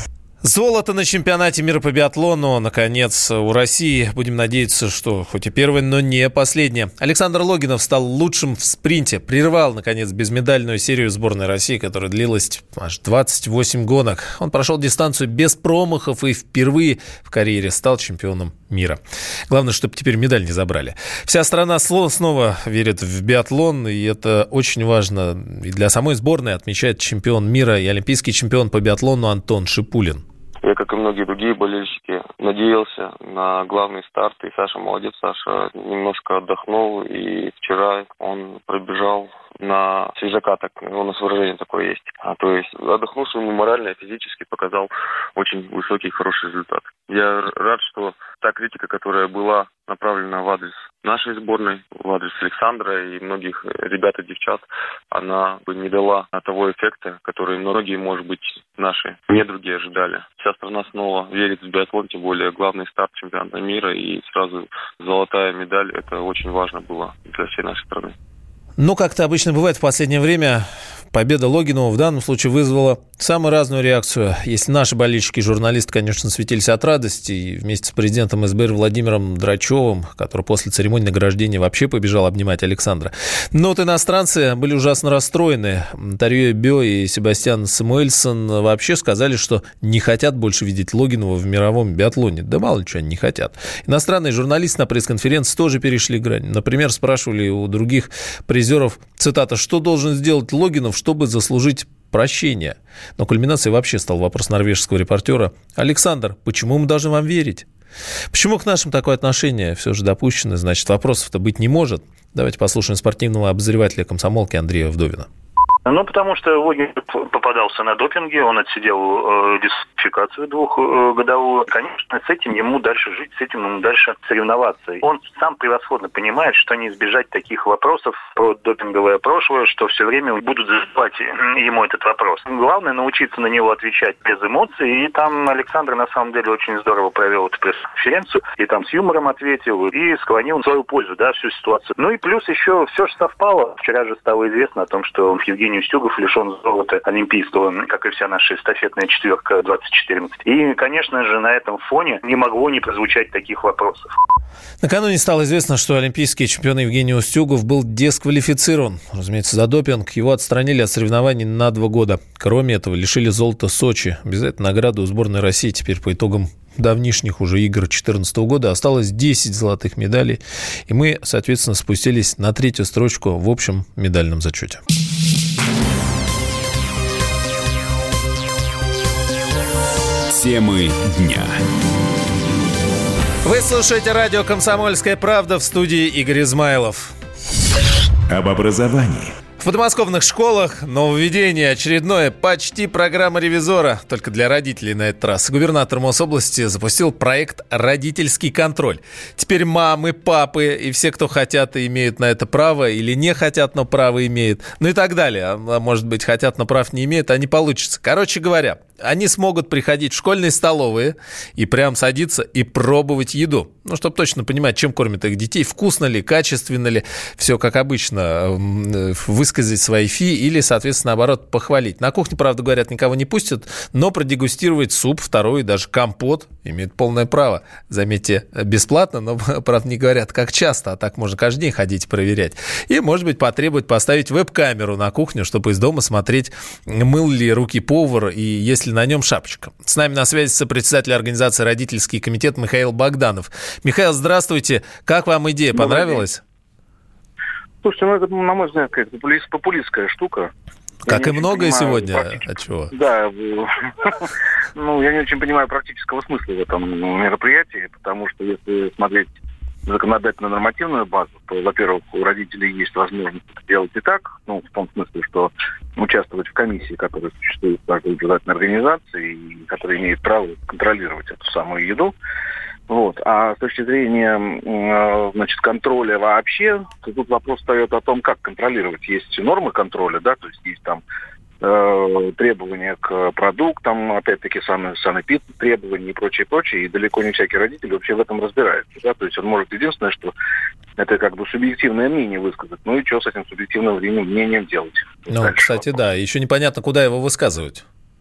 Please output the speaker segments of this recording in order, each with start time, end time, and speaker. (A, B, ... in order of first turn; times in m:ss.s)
0:00.4-0:30.2 A
0:30.6-1:08.1 B
1:08.8-1:47.6 A
1:48.3-1:55.3 A
1:55.8-2:34.1 C
2:34.8-2:54.8 A
3:00.3-3:01.5 D
3:03.4-3:07.1 A
3:08.3-3:09.3 D
3:09.6-4:06.4 A
4:05.7-4:06.2 E
4:07.8-4:10.5 E
4:11.0-4:12.4 E
4:11.0-4:12.9 A
4:12.9-4:19.3 E
4:19.9-4:32.1 E
4:32.9-4:41.0 E
4:41.6-4:50.3 E
4:51.0-4:55.8 E
4:55.3-4:57.8 A